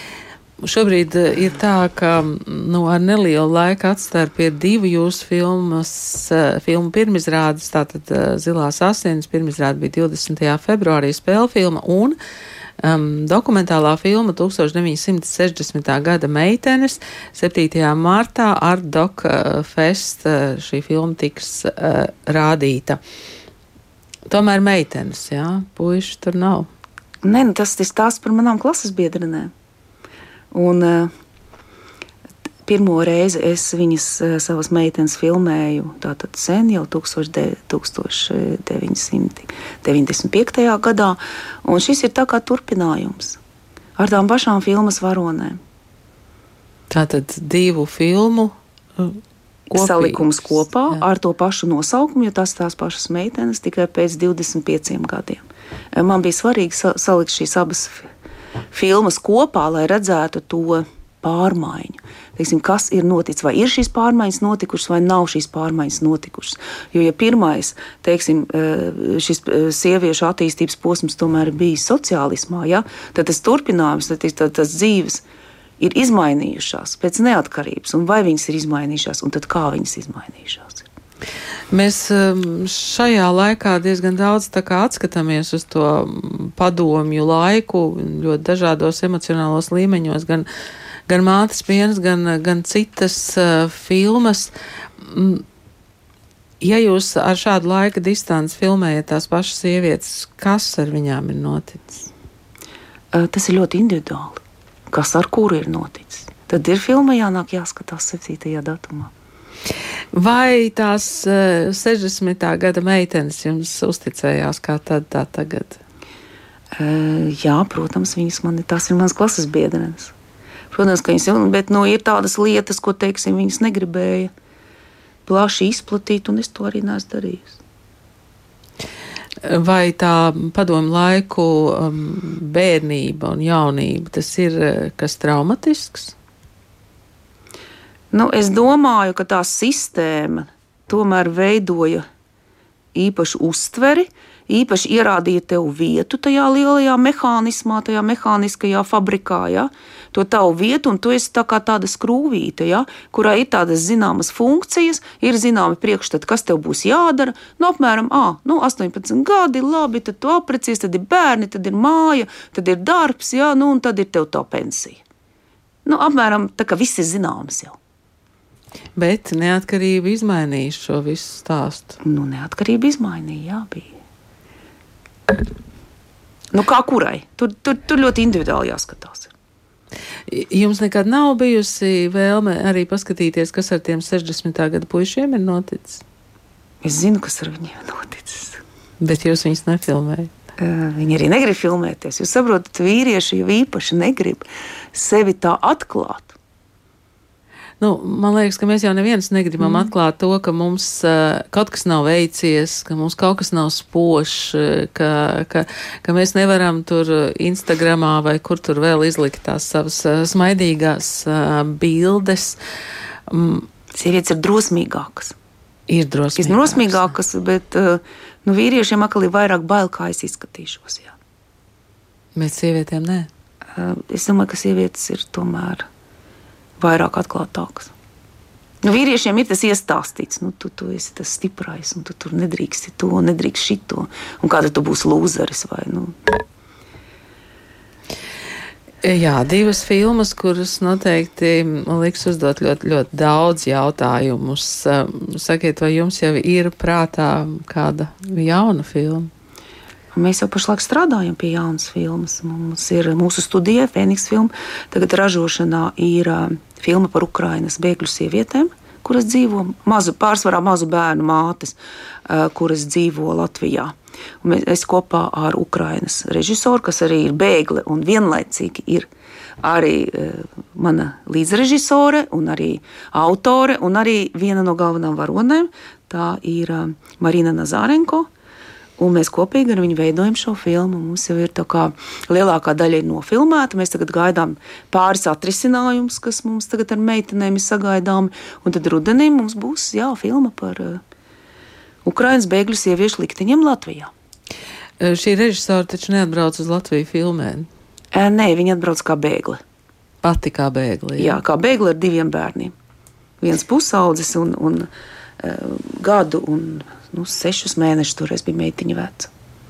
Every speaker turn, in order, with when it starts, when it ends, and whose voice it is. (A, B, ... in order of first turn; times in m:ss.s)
0:00.6-0:12.2 A
0:12.8-0:23.0 A
0:24.3-0:26.7 A
0:27.2-0:29.5 B
0:30.5-0:31.1 B
0:32.6-0:43.4 B
0:44.0-0:45.6 B
0:46.9-0:49.2 A
0:49.7-0:51.0 A
0:49.7-0:58.1 B
0:58.7-1:15.2 B
1:15.8-1:20.8 B
1:21.7-1:30.4 A
1:31.1-1:35.4 A
1:36.6-1:42.1 A
1:43.1-1:49.1 B
1:50.1-1:55.8 A
1:56.8-2:00.1 B
2:00.7-2:04.3 B
2:05.2-2:07.6 B
2:09.5-2:16.1 A
2:18.1-2:22.0 B
2:22.9-2:45.0 B
2:45.8-2:47.8 B
2:49.0-2:52.0 A
2:52.0-2:53.9 B
2:56.5-2:59.3 B
3:00.3-3:06.0 A
3:06.8-3:08.6 B
3:09.0-3:10.3 A
3:10.6-3:16.3 B
3:17.8-3:32.6 A
3:19.6-3:19.9 B
3:33.3-3:33.7 A
3:33.9-3:35.4 B
3:35.9-3:37.1 A
3:36.4-3:41.1 B
3:42.3-3:43.3 A
3:43.7-3:45.8 B
3:46.8-3:47.9 B
3:48.8-3:56.3 B
3:59.0-4:09.3 A
4:10.1-4:29.1 B
4:29.6-4:38.3 B
4:39.0-4:51.0 B
4:52.0-4:54.1 B
4:55.0-4:57.7 A
4:58.1-4:59.6 B
5:00.2-5:01.4 A
5:01.2-5:02.7 B
5:03.4-5:04.9 B
5:05.4-5:09.3 B